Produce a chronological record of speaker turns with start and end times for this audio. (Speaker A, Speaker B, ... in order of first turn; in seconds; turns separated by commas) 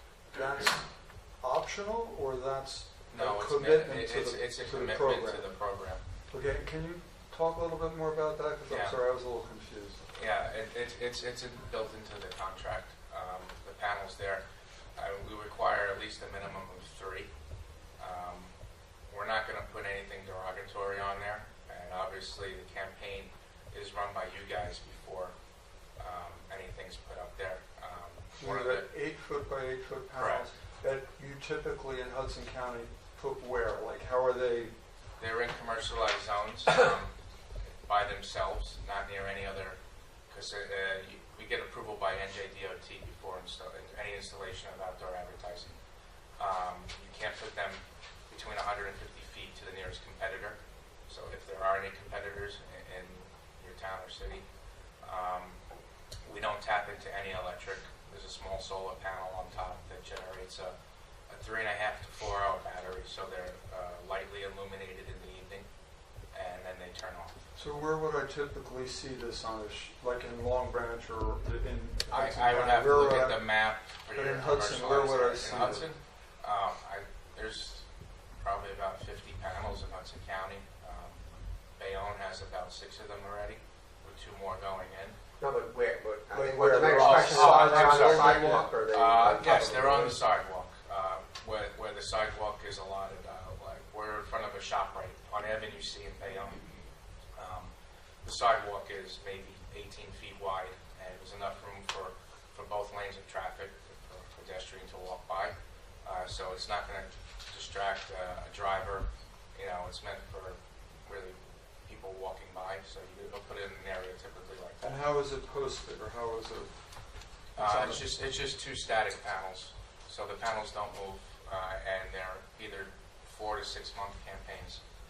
Speaker A: 0.3-5.6, Speaker B: 3.1-6.0, Speaker A: 6.3-10.0, Speaker B: 8.7-8.9, Speaker B: 10.1-14.4, Speaker B: 14.9-17.3, Speaker B: 18.0-18.5, Speaker B: 19.1-25.3, Speaker B: 26.0-28.9, Speaker A: 28.4-34.7, Speaker B: 30.1-30.4, Speaker B: 35.2-37.1, Speaker B: 37.8-39.8, Speaker B: 40.3-45.8, Speaker B: 46.4-54.4, Speaker B: 55.0-55.6, Speaker B: 56.2-60.7, Speaker B: 61.3-65.7, Speaker B: 66.3-67.4, Speaker A: 67.5-75.9, Speaker B: 72.1-77.9, Speaker B: 78.4-81.2, Speaker B: 81.8-85.2, Speaker C: 85.4-90.2, Speaker A: 86.3-88.7, Speaker B: 86.9-96.6, Speaker B: 97.3-97.7, Speaker B: 98.2-114.8, Speaker A: 114.8-116.8, Speaker A: 117.5-118.0, Speaker B: 117.5-124.8